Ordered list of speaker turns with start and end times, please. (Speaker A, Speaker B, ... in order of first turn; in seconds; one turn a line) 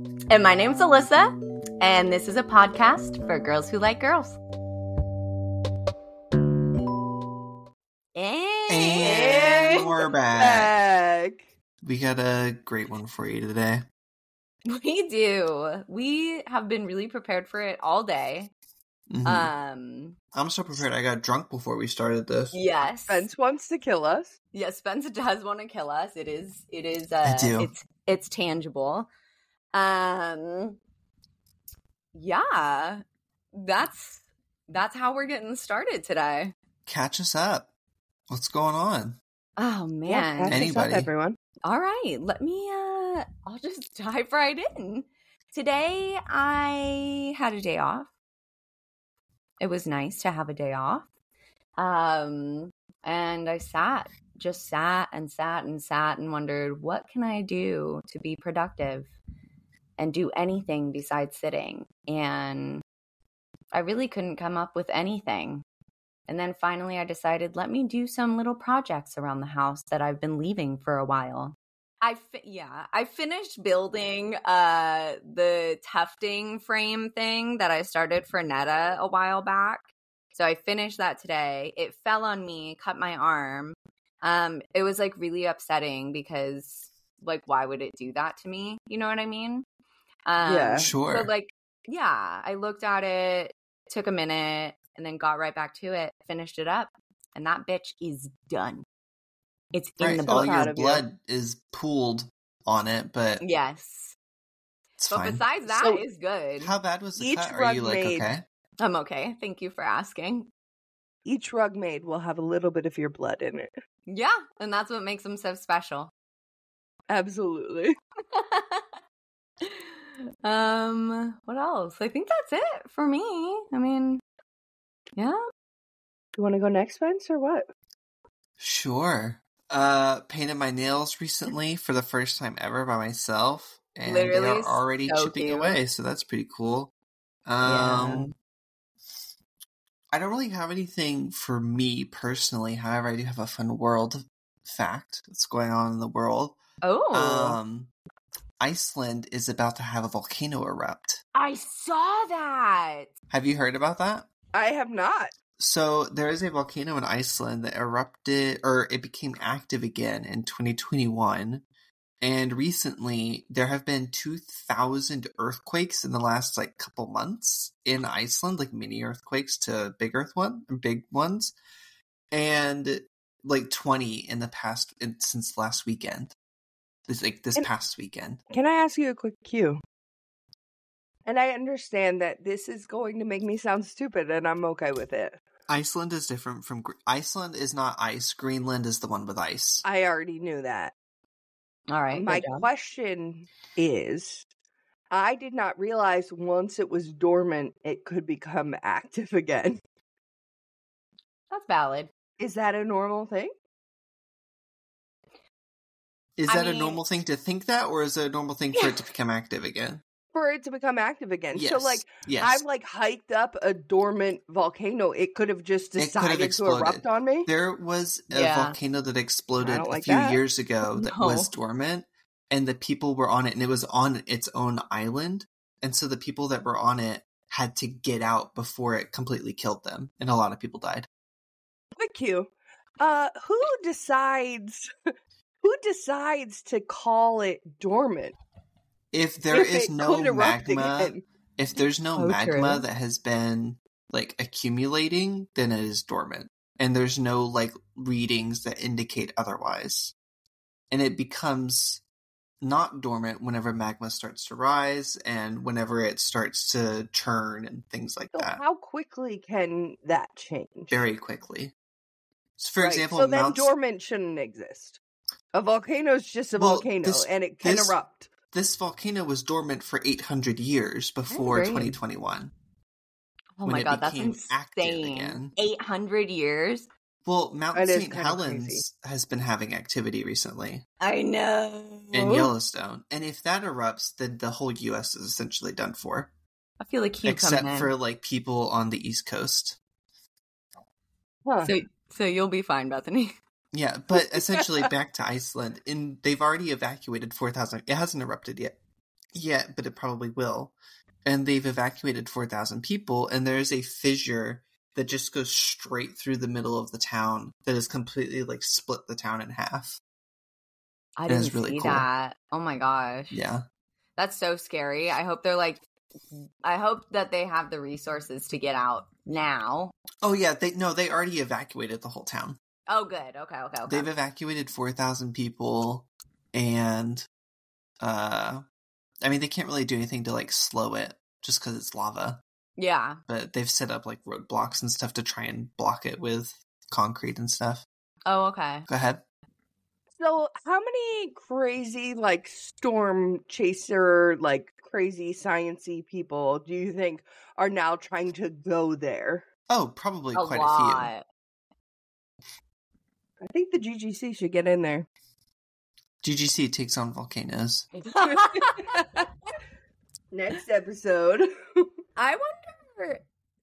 Speaker A: 0.3-4.4
Speaker A: 8.2-9.9
Speaker B: 8.7-10.7
Speaker C: 9.0-11.4
Speaker B: 11.8-13.9
Speaker A: 14.7-18.5
Speaker B: 19.1-19.5
Speaker A: 19.2-20.2
Speaker B: 20.3-22.6
Speaker A: 22.5-23.3
Speaker C: 23.1-24.4
Speaker A: 24.5-29.1
Speaker B: 27.2-27.7
Speaker A: 29.7-30.8
Speaker A: 32.1-33.0
Speaker A: 33.5-36.5
Speaker B: 36.9-37.7
Speaker B: 38.3-39.2
Speaker A: 39.6-40.6
Speaker C: 40.1-41.4
Speaker B: 40.5-41.1
Speaker A: 41.6-48.1
Speaker A: 49.6-51.1
Speaker A: 51.8-59.1
Speaker A: 60.0-62.8
Speaker A: 63.7-65.6
Speaker A: 66.3-89.7
Speaker A: 90.3-98.8
Speaker C: 90.5-90.9
Speaker B: 90.8-91.3
Speaker A: 99.7-100.7
Speaker B: 100.0-103.4
Speaker C: 100.2-101.0
Speaker A: 103.4-104.2
Speaker B: 105.0-105.5
Speaker A: 105.1-106.7
Speaker C: 105.7-106.0
Speaker B: 106.6-108.5
Speaker C: 107.2-108.3
Speaker A: 108.8-110.5
Speaker C: 111.2-113.7
Speaker A: 114.1-116.1
Speaker C: 117.1-118.0
Speaker A: 118.3-119.0
Speaker A: 119.6-124.2
Speaker C: 126.3-127.7
Speaker B: 128.6-136.9
Speaker A: 134.1-135.8
Speaker B: 137.5-138.3
Speaker A: 137.6-138.3
Speaker B: 140.1-146.6
Speaker A: 146.8-147.6
Speaker B: 147.1-147.9
Speaker B: 148.6-151.2
Speaker A: 151.3-153.1
Speaker B: 153.3-154.3
Speaker C: 154.5-155.3
Speaker B: 155.6-161.6
Speaker B: 162.2-171.6
Speaker B: 172.3-176.3
Speaker B: 177.1-178.4
Speaker C: 178.5-179.8
Speaker C: 181.3-185.4
Speaker B: 185.7-189.8
Speaker C: 189.8-190.9
Speaker A: 191.9-192.7
Speaker C: 192.1-194.5
Speaker C: 195.1-199.8
Speaker A: 201.5-202.1
Speaker C: 202.4-203.5
Speaker B: 206.4-210.0
Speaker A: 206.5-207.0
Speaker C: 210.3-217.5
Speaker B: 211.5-212.6
Speaker B: 216.0-231.1
Speaker A: 218.3-218.8
Speaker C: 219.6-220.4
Speaker A: 220.8-221.5
Speaker C: 232.0-234.9
Speaker C: 235.6-238.4
Speaker B: 239.1-250.1
Speaker C: 239.5-241.2
Speaker A: 242.2-242.8
Speaker B: 250.9-252.0
Speaker B: 252.6-258.6
Speaker C: 258.3-261.0
Speaker B: 260.9-261.7
Speaker B: 262.6-263.7
Speaker C: 262.8-265.0
Speaker C: 265.5-268.3
Speaker B: 266.6-268.0
Speaker B: 268.5-272.5
Speaker A: 271.3-272.0
Speaker A: 273.6-276.9
Speaker B: 273.6-275.5
Speaker B: 277.3-280.8
Speaker C: 277.7-278.8
Speaker A: 281.0-282.5
Speaker B: 282.1-286.3
Speaker A: 286.8-287.9
Speaker B: 287.2-289.8
Speaker C: 291.5-291.7
Speaker A: 291.6-293.4
Speaker B: 293.7-298.8
Speaker B: 299.3-310.0
Speaker A: 311.2-313.4
Speaker B: 311.3-312.1
Speaker B: 313.3-313.6
Speaker A: 314.2-315.8
Speaker A: 316.6-319.9
Speaker B: 320.2-322.6
Speaker A: 322.9-324.1
Speaker B: 323.9-327.3
Speaker B: 328.0-328.6
Speaker B: 329.2-332.4
Speaker A: 332.8-333.2
Speaker B: 333.3-337.9
Speaker A: 338.3-338.9
Speaker B: 338.9-339.2
Speaker C: 340.2-349.5
Speaker B: 349.7-351.1
Speaker A: 350.4-351.2
Speaker C: 353.4-355.1
Speaker B: 356.2-357.9
Speaker A: 358.0-359.5
Speaker C: 358.2-359.3
Speaker C: 360.3-361.9
Speaker A: 362.2-363.2